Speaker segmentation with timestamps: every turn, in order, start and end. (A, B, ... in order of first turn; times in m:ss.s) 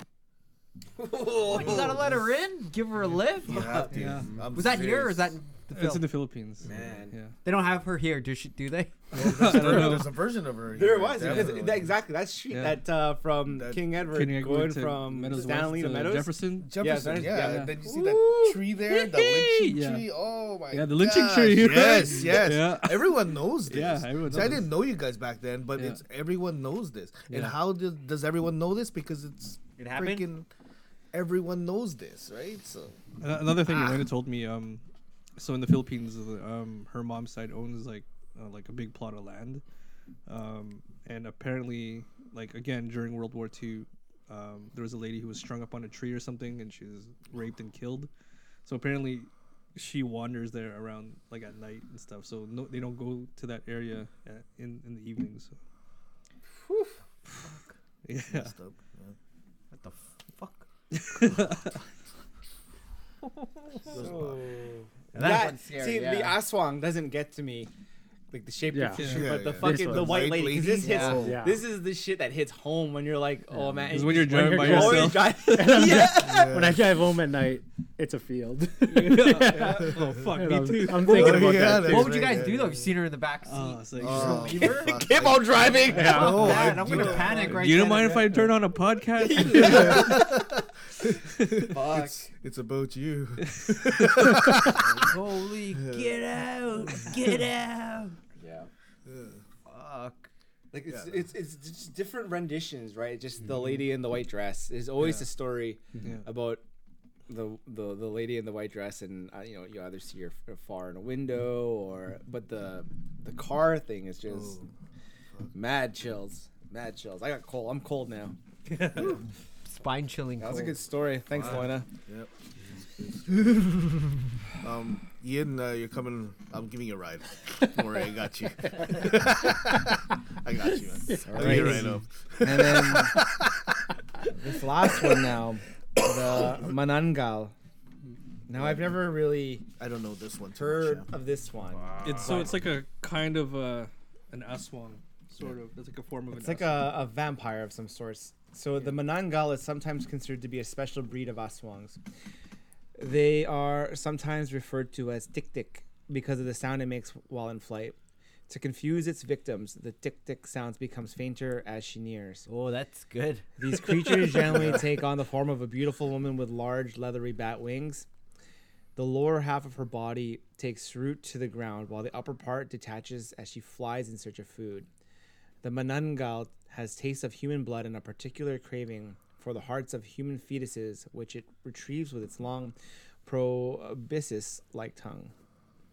0:01.0-0:01.9 A
0:01.4-0:06.0 B
0:01.5-0:02.2 C
0:03.4-0:05.4 C
0:03.9-0:04.3 D
0:05.7-0:07.4 D
0:06.6-0:07.1 C
0:06.7-0:07.1 A
0:07.4-0:09.7 B
0:09.1-0:10.1 D
0:09.1-0:11.9 C
0:10.8-0:18.2 A
0:11.2-0:11.6 D
0:12.5-0:12.8 D
0:13.5-0:13.8 C
0:14.1-0:16.7 D
0:16.6-0:30.5 C
0:17.2-0:17.7 D
0:18.9-0:20.1 D
0:20.7-0:24.7 D
0:27.3-0:27.6 D
0:29.8-0:30.3 B
0:31.1-0:33.0 C
0:33.2-0:34.8 D
0:33.7-0:34.0 C
0:35.4-0:39.6 D
0:40.3-0:48.1 D
0:48.6-0:55.6 D
0:56.7-0:57.0 A
0:57.4-0:57.7 B
0:58.0-0:58.5 D
0:58.3-0:59.2 C
0:59.7-1:00.7 B
1:00.9-1:01.8 D
1:03.2-1:04.0 B
1:03.9-1:04.4 C
1:03.9-1:07.7 A
1:05.1-1:06.4 B
1:08.3-1:16.5 A
1:08.7-1:10.4 E
1:09.1-1:11.4 C
1:10.8-1:11.3 B
1:11.1-1:11.6 E
1:13.6-1:22.1 E
1:13.9-1:15.9 D
1:16.1-1:16.9 C
1:18.9-1:21.7 D
1:19.4-1:19.9 A
1:21.0-1:22.8 C
1:21.6-1:25.0 B
1:23.5-1:24.7 D
1:24.0-1:27.6 C
1:24.6-1:27.6 A
1:25.9-1:26.5 E
1:26.0-1:28.5 B
1:27.3-1:30.2 D
1:29.4-1:30.1 A
1:29.5-1:36.4 C
1:31.7-1:32.3 A
1:33.6-1:33.8 D
1:34.7-1:38.2 B
1:38.4-1:38.7 A
1:39.1-1:39.4 C
1:39.7-1:40.3 B
1:40.7-1:46.6 A
1:40.9-1:41.3 C
1:47.3-1:54.6 A
1:54.3-1:54.7 C
1:55.5-1:58.4 A
1:58.7-1:59.2 D
1:59.0-2:00.8 B
2:00.4-2:01.9 A
2:01.3-2:13.6 C
2:11.1-2:11.6 E
2:11.2-2:13.2 A
2:14.3-2:17.5 A
2:18.5-2:19.6 A
2:18.5-2:19.0 C
2:19.8-2:21.1 C
2:20.6-2:22.6 A
2:22.0-2:26.9 D
2:22.1-2:22.3 C
2:26.3-2:32.0 A
2:33.0-2:38.0 A
2:38.5-2:42.5 A
2:42.5-2:43.5 B
2:43.6-2:48.1 A
2:43.9-2:44.6 D
2:49.0-2:54.9 A
2:55.6-3:05.3 A